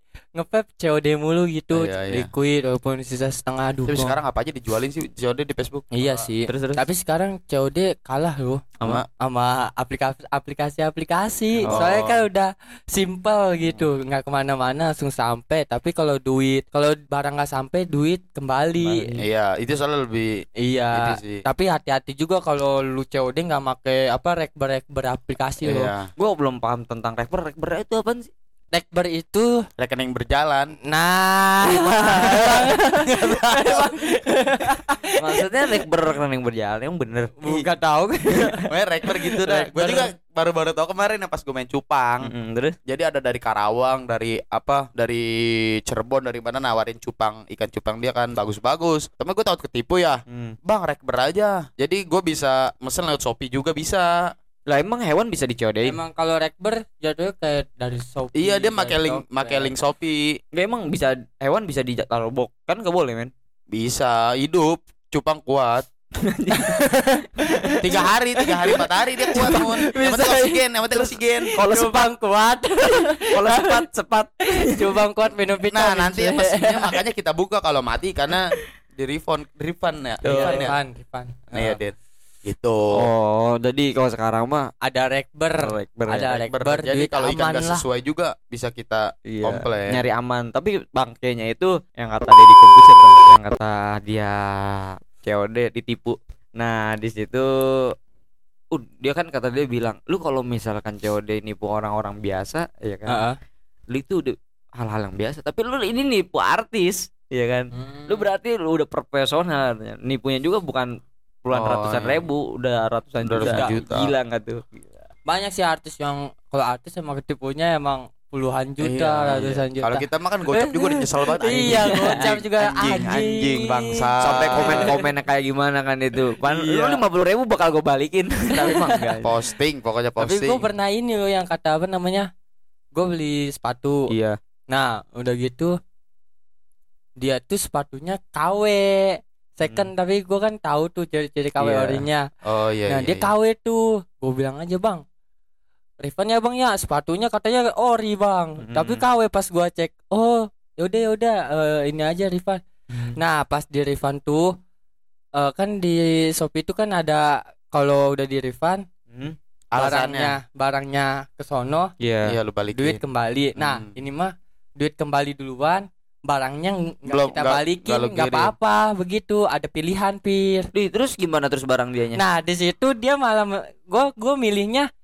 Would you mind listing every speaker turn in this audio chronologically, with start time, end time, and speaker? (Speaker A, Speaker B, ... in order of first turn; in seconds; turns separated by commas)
Speaker A: 0.3-4.2, Speaker B: 1.7-2.3, Speaker B: 3.9-6.3, Speaker A: 5.9-19.2, Speaker C: 6.5-6.8, Speaker B: 11.6-12.2, Speaker C: 18.8-19.1, Speaker B: 19.2-20.4, Speaker A: 20.6-25.9, Speaker B: 20.9-21.4, Speaker B: 25.6-26.1, Speaker C: 26.2-28.3, Speaker A: 28.7-29.7, Speaker B: 29.8-30.7, Speaker A: 30.9-35.8, Speaker C: 31.7-32.7, Speaker B: 33.0-33.9, Speaker C: 35.2-37.6, Speaker A: 37.4-38.7, Speaker B: 38.7-42.3, Speaker A: 39.2-40.1, Speaker C: 42.2-42.7, Speaker B: 42.9-54.3, Speaker C: 50.3-50.5, Speaker C: 54.7-56.0, Speaker A: 55.8-59.7, Speaker B: 58.3-60.4, Speaker C: 60.5-63.3, Speaker B: 63.7-65.9, Speaker C: 66.2-66.9, Speaker A: 66.5-69.7, Speaker C: 67.5-68.0, Speaker B: 67.8-71.6, Speaker C: 69.4-72.1, Speaker A: 71.5-73.8, Speaker C: 72.9-74.9, Speaker A: 74.5-77.0, Speaker B: 75.7-80.8, Speaker C: 80.2-80.7, Speaker A: 80.2-81.8, Speaker B: 81.5-83.1, Speaker C: 82.9-84.7, Speaker A: 84.8-87.8, Speaker C: 85.6-86.3, Speaker B: 86.4-90.0, Speaker C: 89.3-97.9, Speaker C: 98.7-103.2, Speaker A: 103.1-103.4, Speaker C: 103.9-110.9, Speaker A: 107.7-108.2, Speaker C: 111.4-114.9, Speaker B: 111.5-112.2, Speaker B: 113.2-114.1, Speaker A: 113.4-113.8, Speaker A: 115.3-125.1, Speaker B: 118.8-125.0, Speaker C: 121.6-122.3, Speaker C: 124.2-129.3, Speaker A: 126.4-127.0, Speaker A: 128.5-129.2, Speaker B: 129.2-130.6, Speaker A: 130.2-132.3, Speaker A: 132.9-134.1, Speaker C: 134.1-134.4, Speaker A: 134.7-135.8, Speaker A: 137.2-142.2, Speaker C: 141.6-142.0, Speaker B: 142.4-143.3, Speaker A: 142.9-145.0, Speaker A: 146.0-152.6, Speaker C: 148.6-149.0, Speaker C: 152.9-153.2, Speaker A: 153.1-154.5, Speaker A: 155.3-158.8, Speaker B: 159.7-160.3, Speaker A: 159.8-161.9, Speaker C: 162.0-162.4, Speaker B: 162.2-163.0, Speaker A: 162.7-170.7, Speaker B: 163.6-163.9, Speaker B: 167.1-168.5, Speaker C: 170.7-172.2, Speaker A: 172.2-174.9